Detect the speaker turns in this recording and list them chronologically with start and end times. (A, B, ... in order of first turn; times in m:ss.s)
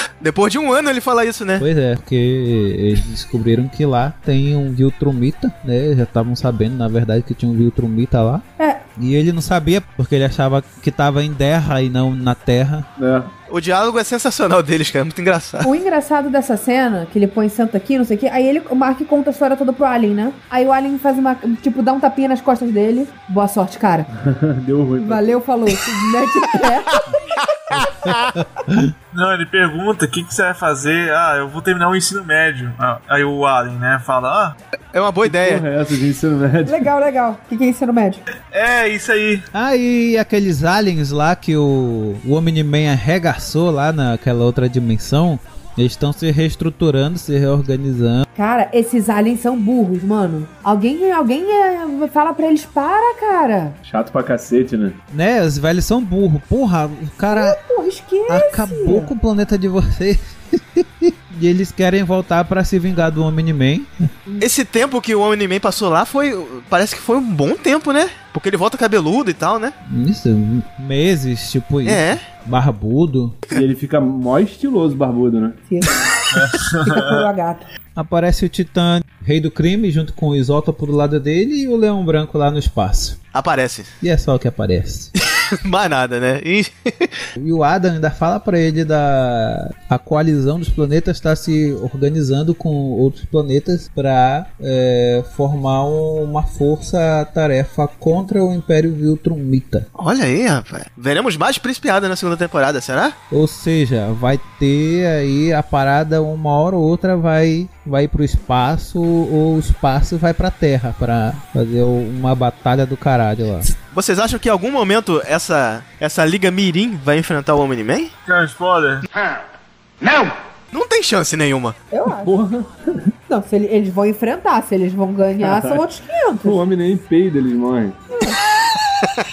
0:00.2-0:01.6 A
0:01.6-0:08.4 B
0:09.0-0:12.9 B
0:13.0-0:13.3 C
0:13.5-0:15.7 A
0:15.6-0:24.1 D
0:24.2-0:25.4 C
0:25.0-0:28.1 D
0:29.1-0:34.6 E
0:34.9-0:35.7 A
0:35.3-0:36.9 C
0:36.7-0:38.2 D
0:38.5-0:39.5 E
0:39.5-0:48.3 B
0:48.4-0:53.8 D
0:53.9-0:55.0 C
0:55.1-0:57.6 B
0:57.3-0:59.1 D
0:58.3-1:04.1 B
1:04.4-1:09.8 A
1:09.9-1:13.4 B
1:11.8-1:12.2 A
1:13.5-1:15.6 C
1:15.7-1:16.0 D
1:16.3-1:17.3 E
1:16.8-1:17.7 D
1:18.0-1:23.2 B
1:23.3-1:23.9 A
1:24.0-1:25.1 B
1:25.6-1:27.2 A
1:27.4-1:39.9 B
1:40.0-1:43.2 A
1:43.3-1:53.7 B
1:53.7-1:58.1 A
1:58.3-1:59.0 E
2:00.7-2:01.8 A
2:01.9-2:02.3 D
2:02.1-2:02.7 C
2:03.3-2:06.6 D
2:05.4-2:05.8 C
2:06.4-2:08.0 C
2:08.1-2:08.4 D